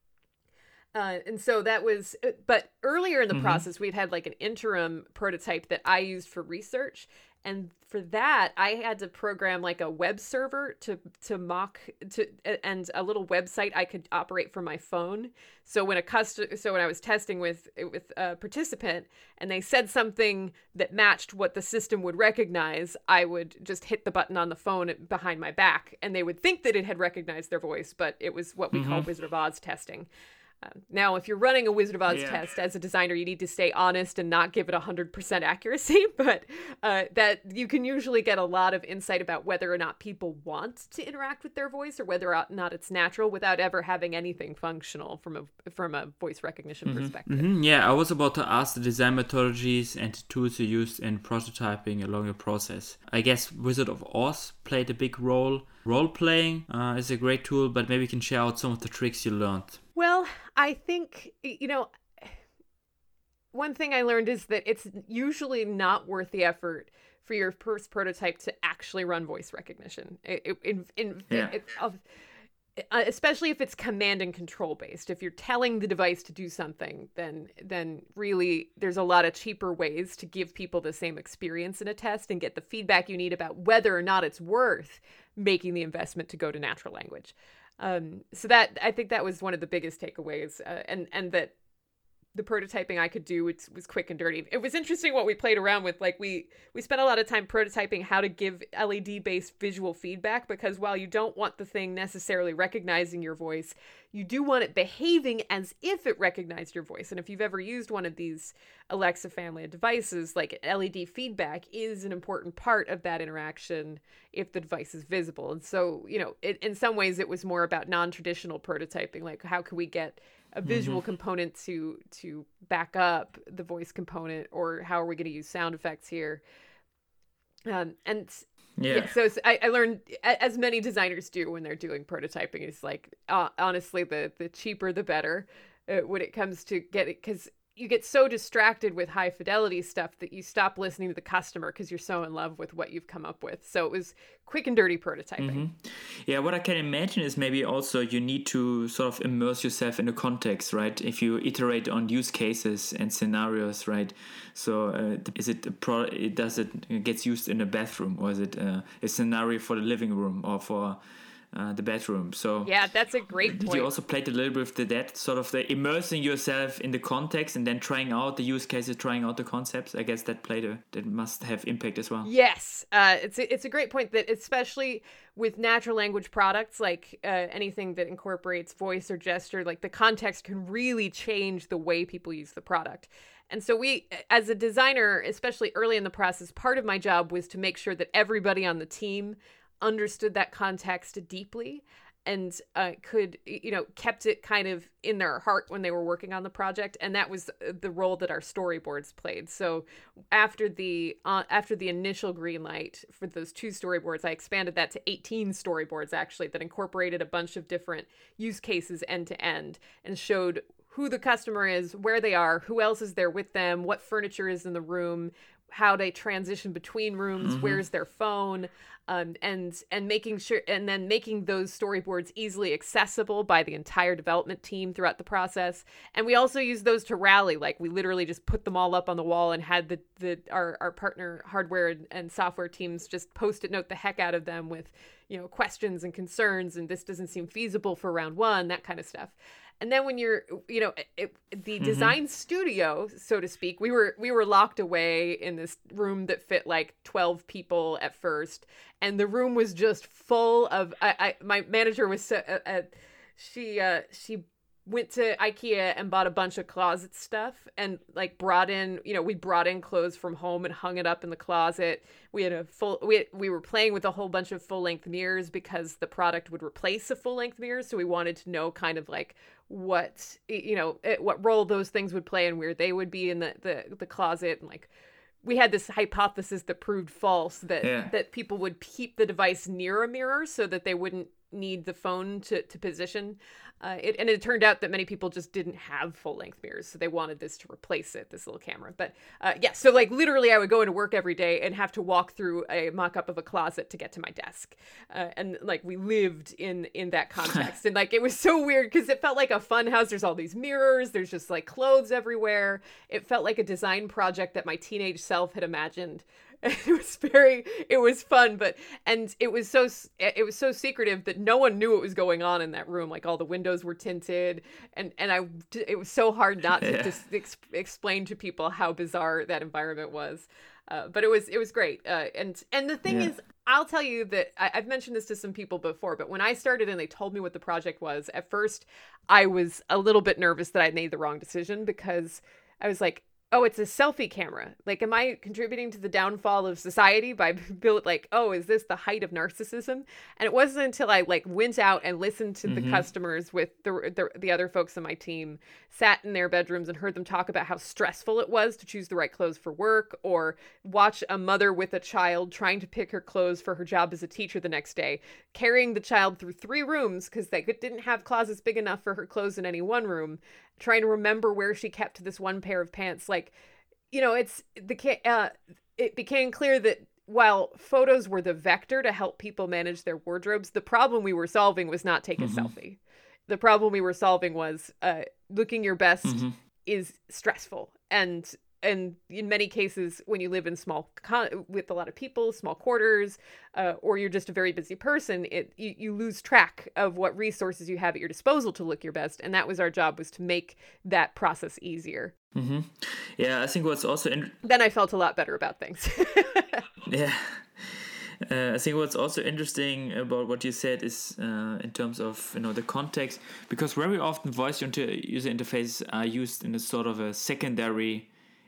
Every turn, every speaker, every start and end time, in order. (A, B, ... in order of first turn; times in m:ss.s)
0:00.9-0:30.1 A
0:03.3-0:03.6 B
0:28.7-0:29.1 B
0:30.6-0:47.5 A
0:32.1-0:32.4 B
0:46.8-0:47.1 B
0:47.3-0:59.8 C
0:59.9-1:02.4 A
1:03.5-1:12.0 A
1:12.9-1:31.5 A
1:32.3-2:06.4 A
2:00.6-2:01.0 B
2:07.7-2:25.7 A
2:08.8-2:09.1 B
2:25.4-2:41.0 B
2:41.5-2:42.7 B
2:42.6-2:43.9 A
2:43.5-2:52.3 B
2:52.2-4:34.9 A
3:37.4-3:37.8 B
4:01.8-4:02.1 B
4:35.4-6:03.5 A
4:37.8-4:38.1 B
5:16.8-5:17.2 B
5:23.0-5:23.3 B
5:42.6-5:43.0 B
6:04.1-6:32.3 A
6:12.4-6:12.7 B
6:16.2-6:16.5 B
6:32.5-6:34.6 B
6:34.6-6:36.8 A
6:37.0-6:48.3 B